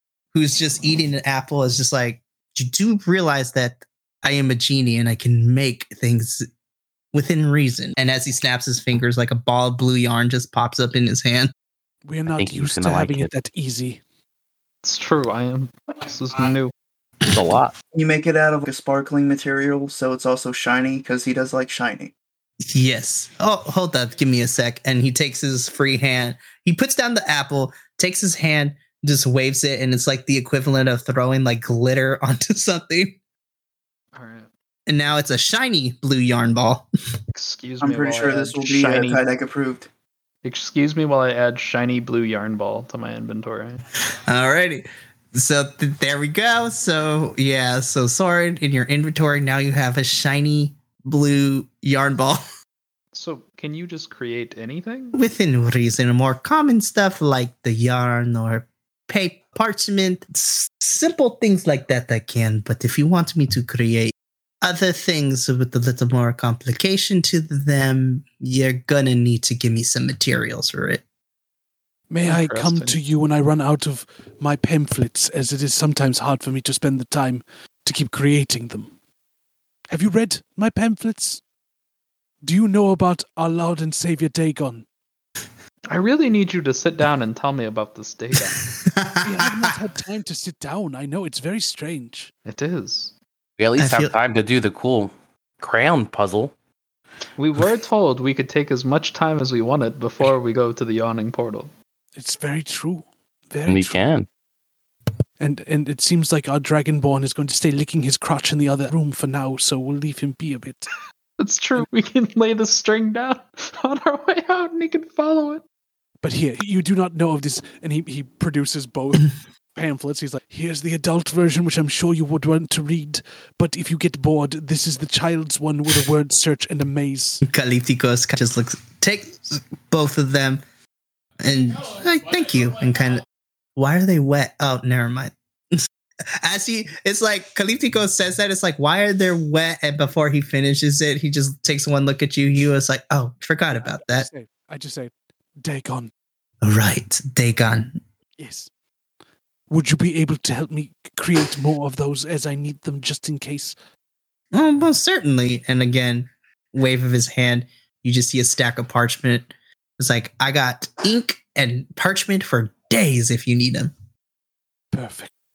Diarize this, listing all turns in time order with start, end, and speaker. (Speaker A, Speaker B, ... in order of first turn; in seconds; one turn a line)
Speaker A: 0.3-6.5
Speaker A: 7.1-11.5
Speaker B: 12.1-14.0
Speaker C: 12.3-13.3
Speaker D: 14.8-16.7
Speaker C: 17.3-17.8
Speaker E: 17.9-22.1
Speaker A: 22.7-33.2
Speaker D: 34.1-34.5
Speaker A: 34.9-36.9
Speaker D: 37.3-39.2
Speaker E: 37.8-39.9
Speaker D: 40.4-43.8
Speaker A: 44.2-52.4
Speaker D: 53.1-55.2
Speaker A: 55.2-71.0
Speaker B: 72.1-78.9
Speaker D: 72.2-73.0
Speaker B: 79.9-81.4
Speaker B: 82.4-84.8
Speaker D: 85.9-88.6
Speaker A: 88.8-89.7
Speaker B: 89.2-92.3
Speaker D: 92.5-93.2
Speaker C: 93.6-96.5
Speaker A: 93.8-94.1
Speaker D: 97.4-101.7
Speaker B: 102.2-104.0
Speaker C: 103.7-104.3
Speaker B: 105.4-110.9
Speaker D: 111.4-115.6
Speaker B: 116.2-127.4
Speaker A: 127.4-130.6
Speaker A: 131.4-133.2
Speaker A: 133.8-135.8
Speaker A: 136.4-144.3
Speaker B: 143.7-146.1
Speaker A: 146.6-148.0
Speaker B: 148.4-148.7
Speaker B: 149.7-153.8
Speaker A: 154.5-163.9
Speaker B: 164.9-165.3